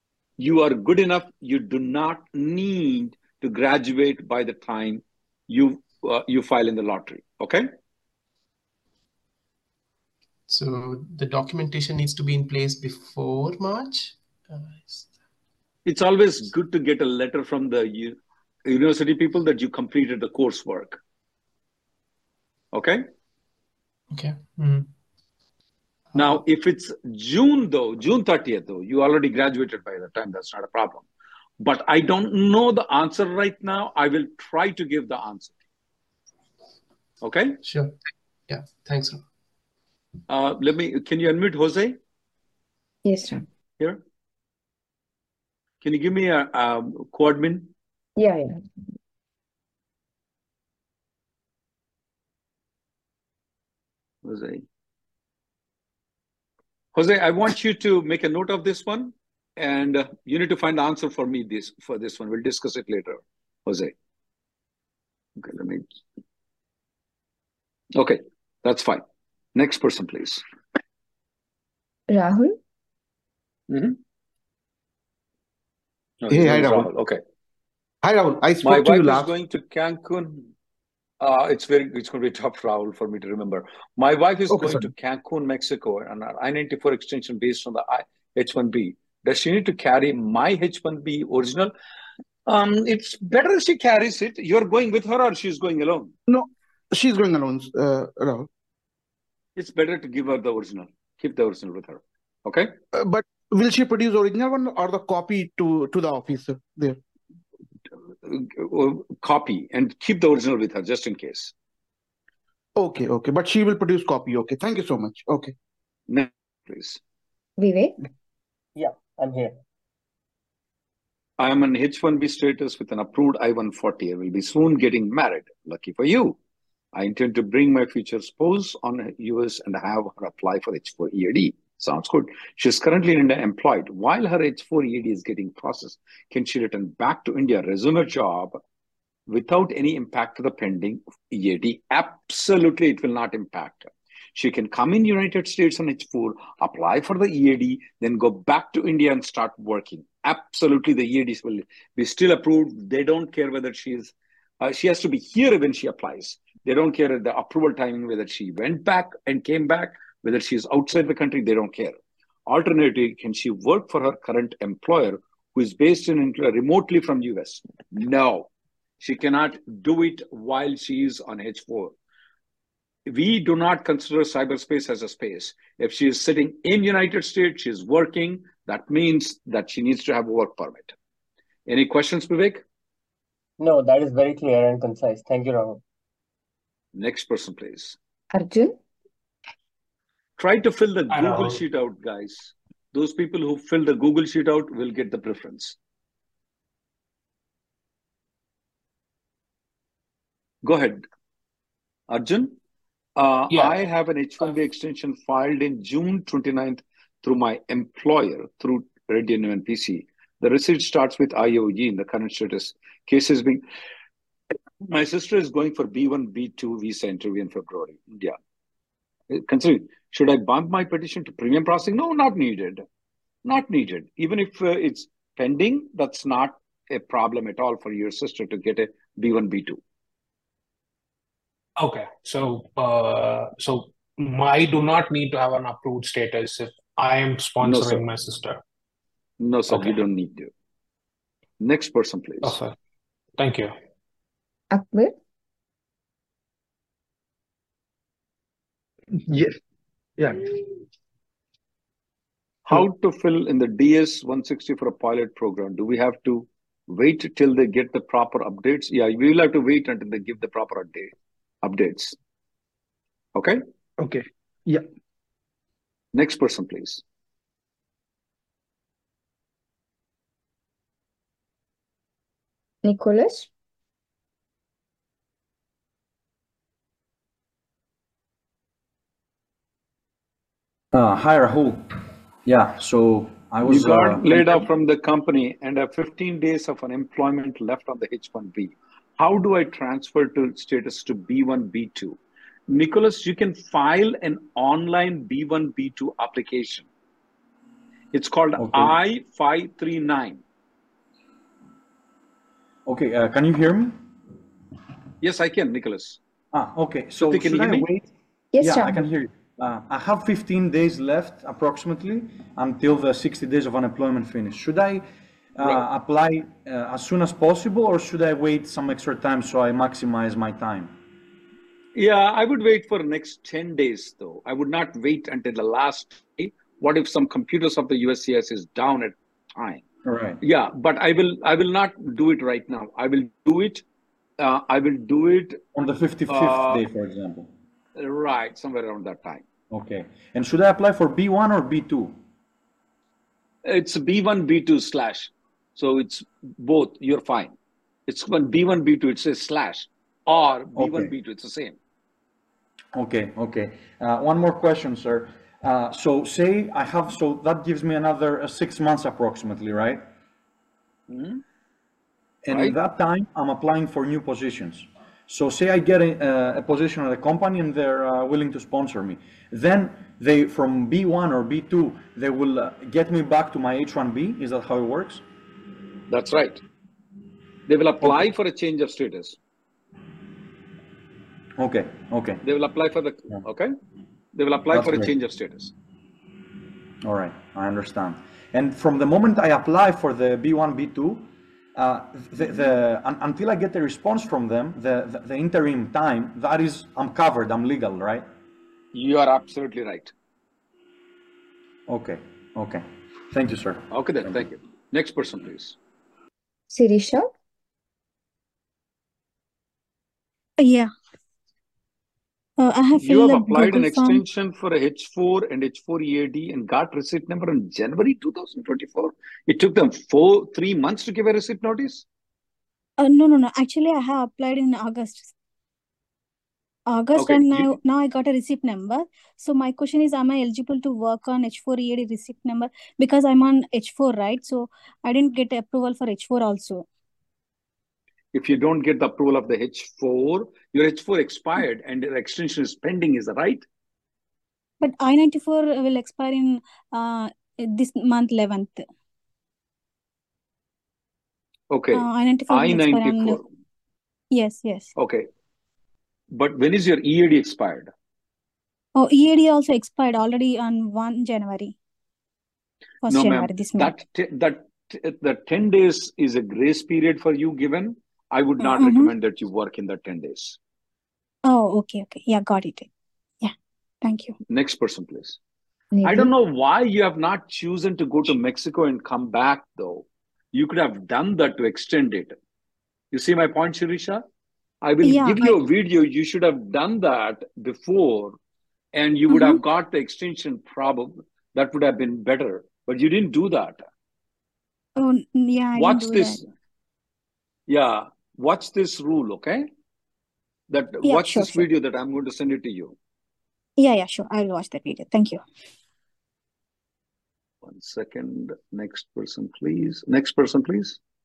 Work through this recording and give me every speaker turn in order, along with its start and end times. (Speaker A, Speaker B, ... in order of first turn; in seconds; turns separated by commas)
Speaker A: 0.4-7.7, Speaker B: 10.5-15.2, Speaker A: 15.8-21.0, Speaker A: 22.7-23.0, Speaker B: 24.1-24.9, Speaker B: 26.1-26.4, Speaker A: 26.1-31.1, Speaker A: 31.6-35.5, Speaker A: 37.2-37.6, Speaker B: 37.6-39.2, Speaker A: 40.3-42.0, Speaker C: 43.0-43.4, Speaker A: 45.8-47.7, Speaker C: 48.2-48.9, Speaker A: 54.2-54.6, Speaker A: 56.9-63.9, Speaker A: 65.4-65.8, Speaker A: 68.0-69.0, Speaker A: 69.5-70.4, Speaker C: 72.1-72.6, Speaker A: 73.7-74.0, Speaker A: 76.2-77.2, Speaker D: 76.3-76.9, Speaker D: 78.0-79.3, Speaker A: 78.6-80.5, Speaker A: 81.2-91.7, Speaker D: 84.5-84.9, Speaker A: 92.5-96.1, Speaker D: 96.3-98.5, Speaker A: 99.5-102.7, Speaker D: 102.9-107.0, Speaker A: 108.2-111.5, Speaker D: 112.8-115.5, Speaker A: 116.1-117.0, Speaker C: 117.6-118.0, Speaker E: 118.8-119.6, Speaker A: 121.4-126.4, Speaker A: 126.9-138.6, Speaker A: 139.3-162.0, Speaker A: 162.5-168.5, Speaker A: 169.0-171.9, Speaker A: 173.1-180.9, Speaker A: 181.7-182.6, Speaker E: 183.6-185.8, Speaker A: 186.9-188.0, Speaker C: 188.3-188.8, Speaker A: 190.4-195.8, Speaker F: 191.1-191.6, Speaker A: 200.6-201.0, Speaker A: 202.1-202.6, Speaker A: 203.2-213.6, Speaker A: 214.8-218.3, Speaker A: 219.3-222.8, Speaker A: 223.4-229.8, Speaker F: 231.8-238.6, Speaker A: 237.6-238.0, Speaker A: 239.4-240.5, Speaker F: 239.7-240.0, Speaker A: 241.6-242.6, Speaker F: 242.4-242.7, Speaker F: 243.4-243.7, Speaker C: 244.7-245.2, Speaker D: 249.3-249.5, Speaker D: 250.2-250.5, Speaker A: 252.7-262.2, Speaker A: 263.4-263.6, Speaker A: 266.1-267.0, Speaker C: 272.8-273.5, Speaker G: 280.9-281.9, Speaker G: 282.5-284.6, Speaker A: 283.6-292.2, Speaker A: 292.7-296.9, Speaker A: 298.1-300.4, Speaker G: 298.6-298.9, Speaker G: 302.9-304.1, Speaker A: 305.2-306.2, Speaker G: 306.5-308.1, Speaker A: 307.2-307.9, Speaker C: 308.5-309.1, Speaker G: 308.6-315.0, Speaker G: 315.6-320.9, Speaker A: 321.9-329.8, Speaker G: 330.0-330.4, Speaker A: 330.4-333.8, Speaker A: 334.4-335.7, Speaker G: 335.8-337.5, Speaker A: 336.3-336.8, Speaker A: 338.0-339.4, Speaker G: 339.7-342.2, Speaker A: 343.6-347.5, Speaker A: 348.1-351.8, Speaker G: 350.8-351.1, Speaker G: 352.9-360.1, Speaker A: 361.1-361.4, Speaker G: 362.5-375.2, Speaker A: 376.1-376.6, Speaker A: 377.7-379.4, Speaker G: 381.6-382.4, Speaker A: 382.4-383.7, Speaker A: 384.3-385.7, Speaker G: 384.7-385.1, Speaker G: 387.0-398.3, Speaker A: 398.9-400.1, Speaker G: 401.9-404.4, Speaker A: 403.9-405.8, Speaker C: 406.7-407.3, Speaker H: 410.6-410.9, Speaker H: 412.6-414.2, Speaker A: 413.0-422.1, Speaker H: 423.0-425.3, Speaker H: 426.9-436.8, Speaker A: 427.2-427.8, Speaker A: 438.3-443.6, Speaker H: 444.8-448.8, Speaker A: 451.7-453.4, Speaker H: 451.9-453.4, Speaker H: 454.3-454.9, Speaker A: 455.0-455.3, Speaker A: 456.3-457.9, Speaker H: 459.0-461.7, Speaker H: 463.0-463.9, Speaker A: 463.1-470.6, Speaker H: 468.6-469.1, Speaker H: 471.5-472.9, Speaker H: 473.4-474.4, Speaker A: 474.5-475.4, Speaker C: 475.9-476.3, Speaker A: 476.0-482.4, Speaker A: 483.1-484.2, Speaker A: 484.8-488.4, Speaker H: 485.0-485.6, Speaker A: 488.9-493.8, Speaker H: 489.3-489.6, Speaker H: 495.0-496.4, Speaker A: 495.8-496.4, Speaker A: 497.7-499.7, Speaker A: 500.7-503.0, Speaker H: 501.0-501.7, Speaker H: 503.8-505.4, Speaker A: 507.6-511.0